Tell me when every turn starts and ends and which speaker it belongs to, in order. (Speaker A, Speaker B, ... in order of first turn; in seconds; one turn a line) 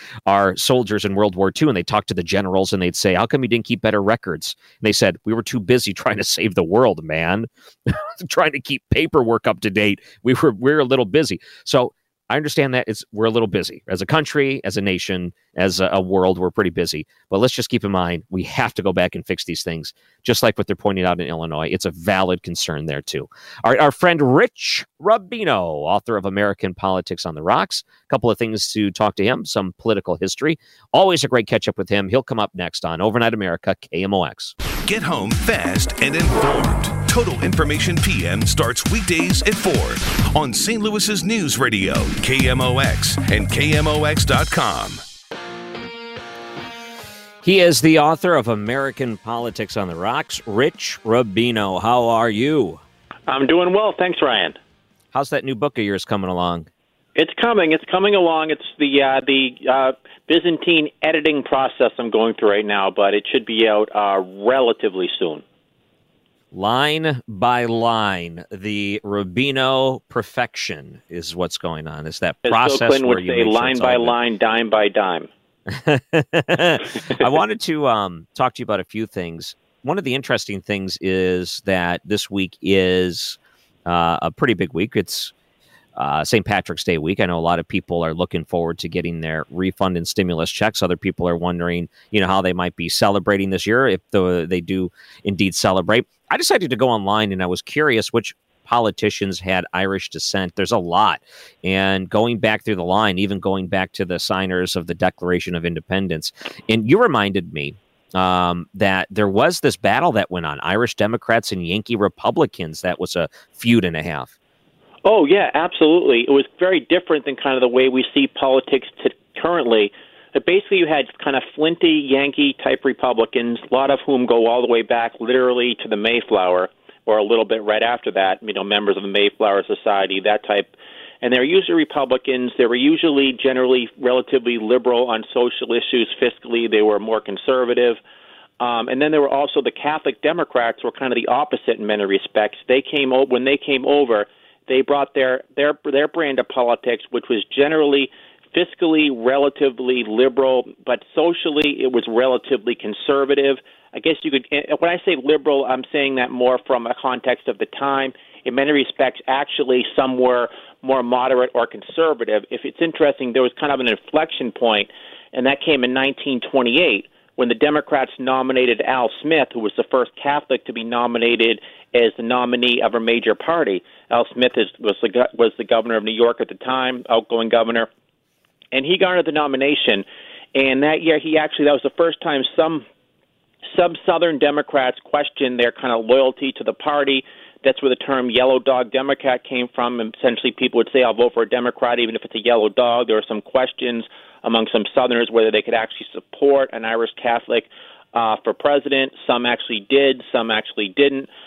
Speaker A: 0.3-34.5
Speaker B: 34.8-45.0
Speaker A: 47.4-52.8
Speaker C: 53.3-54.6
Speaker A: 55.1-56.7
Speaker C: 57.2-65.4
Speaker A: 66.5-74.2
Speaker C: 72.5-75.3
Speaker A: 75.7-85.3
Speaker A: 86.0-114.3
Speaker C: 115.0-138.0
Speaker C: 138.6-177.9
Speaker C: 178.7-182.8
Speaker C: 183.7-201.3